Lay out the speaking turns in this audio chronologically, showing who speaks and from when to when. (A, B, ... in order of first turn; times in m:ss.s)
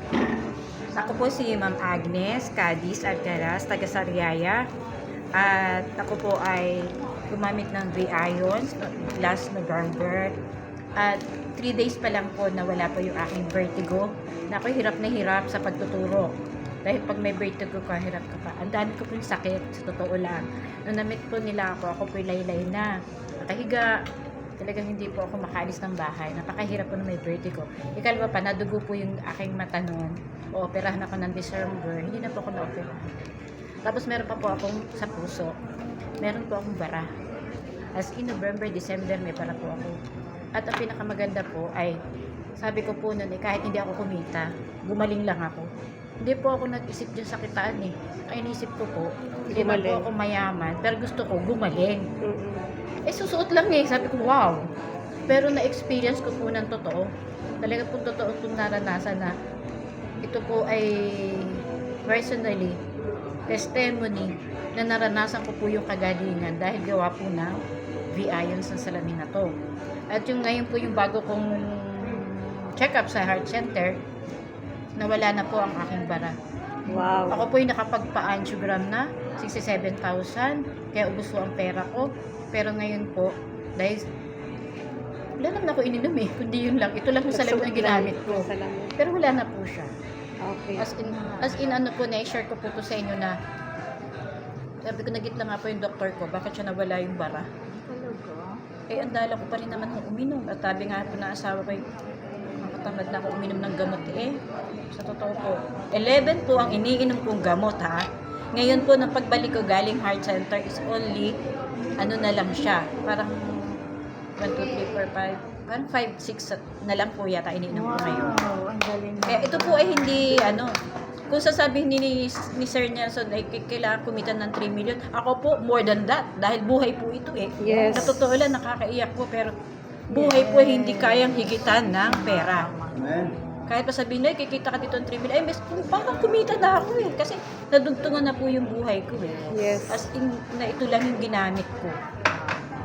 0:00.9-0:04.6 A
0:05.4-0:10.3 A
0:11.0-0:16.3 A
0:16.8-0:22.9 A
0:23.4-0:23.9 A
0:24.6-0:33.1 A
0:33.8-0:35.5 A
0:36.2-0:37.1 A
0:38.0-0:39.9 A
0:40.6-0:41.9 A
0:42.6-0:45.7 A
0:46.2-0:52.0 A
0:49.5-0:50.1 B
0:52.2-0:52.6 B
0:53.1-0:54.6 A
0:55.3-0:57.0 A
0:57.6-0:59.3 A
1:00.2-1:01.6 A
1:02.1-1:02.8 A
1:03.5-1:07.5 A
1:08.1-1:09.5 A
1:10.1-1:14.0 A
1:15.0-1:16.3 A
1:16.9-1:17.4 B
1:17.3-1:24.0 A
1:25.4-1:28.5 A
1:27.3-1:28.9 B
1:29.0-1:29.9 A
1:30.4-1:30.9 B
1:30.8-1:33.3 A
1:34.9-1:37.5 A
1:37.7-1:38.5 C
1:38.9-1:41.8 A
1:42.6-1:44.3 A
1:44.9-1:48.0 A
1:48.6-1:51.3 A
1:52.0-1:53.7 A
1:54.4-1:58.4 A
1:57.8-2:00.2 C
1:59.2-2:00.7 A
2:01.3-2:09.5 A
2:07.6-2:08.2 B
2:10.1-2:12.7 A
2:10.1-2:11.2 B
2:12.0-2:13.0 C
2:13.7-2:22.0 A
2:19.5-2:20.1 B